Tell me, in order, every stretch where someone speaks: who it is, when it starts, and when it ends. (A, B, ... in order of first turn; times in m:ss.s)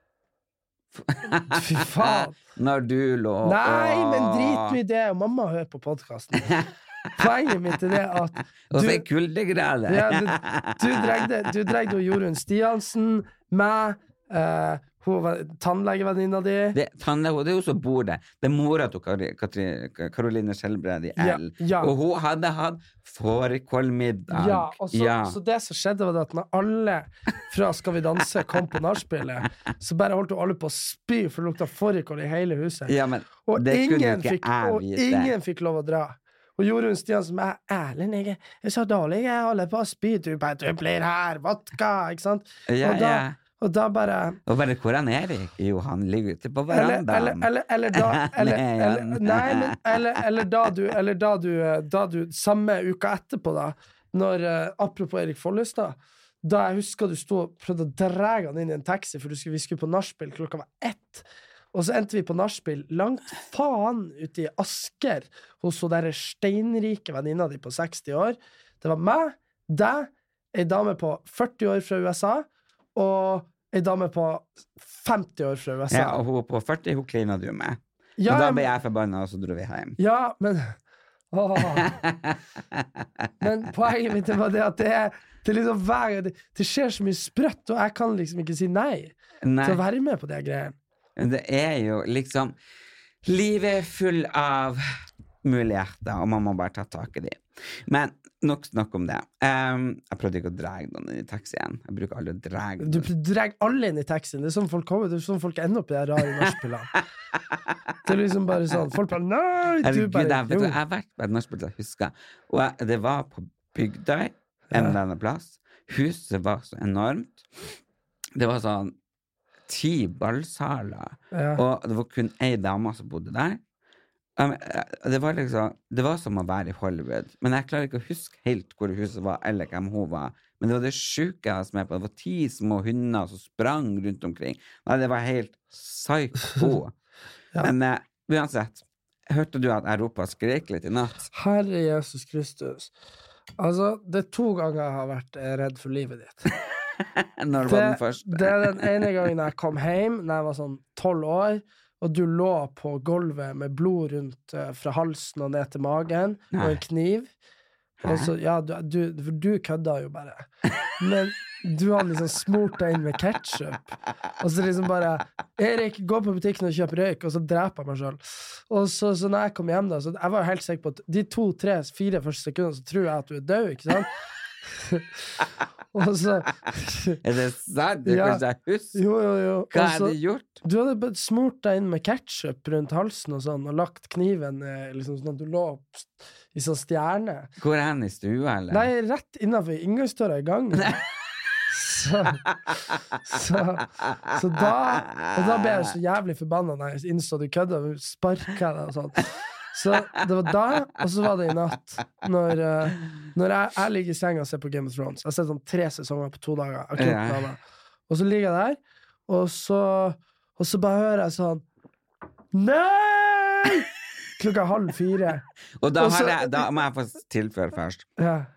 0:01.0-0:04.8 A
0:01.5-0:02.4 B
0:03.4-0:06.6 B
0:06.5-0:07.2 A
0:07.2-0:09.0 B
0:08.7-0:11.3 A
0:09.9-0:16.8 B
0:16.7-0:25.4 A
0:21.2-0:21.9 B
0:24.3-0:44.4 B
0:32.9-0:35.3 A
0:42.7-0:43.4 A
0:44.5-0:50.2 A
0:46.7-1:16.2 B
1:15.9-1:20.0 A
1:18.2-1:18.7 B
1:20.0-1:20.8 B
1:21.3-1:21.9 B
1:21.6-1:23.3 A
1:23.4-1:30.8 B
1:29.4-1:29.8 A
1:31.2-1:32.6 A
1:33.2-1:34.8 A
1:35.4-1:43.1 A
1:42.8-1:46.9 B
1:48.0-1:50.8 B
1:49.8-1:57.5 A
1:54.7-1:55.0 B
1:58.4-1:59.0 A
1:59.7-2:03.6 A
2:01.3-2:01.6 B
2:04.4-2:17.0 A
2:17.6-2:21.3 A
2:21.3-2:22.9 B
2:23.6-2:26.5 B
2:27.0-2:29.1 A
2:27.6-2:37.3 B
2:36.5-2:36.8 A
2:38.0-2:38.3 A
2:38.0-2:40.5 B
2:41.0-2:54.1 B
2:54.7-2:55.4 B
2:55.9-2:57.2 B
2:57.2-2:59.0 A
2:58.1-2:58.4 B
2:58.9-3:07.5 B
2:59.7-3:00.6 A
3:07.6-3:08.9 A
3:08.7-3:11.0 B
3:11.7-3:12.4 B
3:13.2-3:31.6 B
3:14.1-3:15.9 A
3:27.0-3:27.5 A
3:32.5-3:33.9 B
3:34.4-3:35.4 B
3:35.8-3:38.1 A
3:36.0-3:36.6 B
3:38.2-3:38.5 B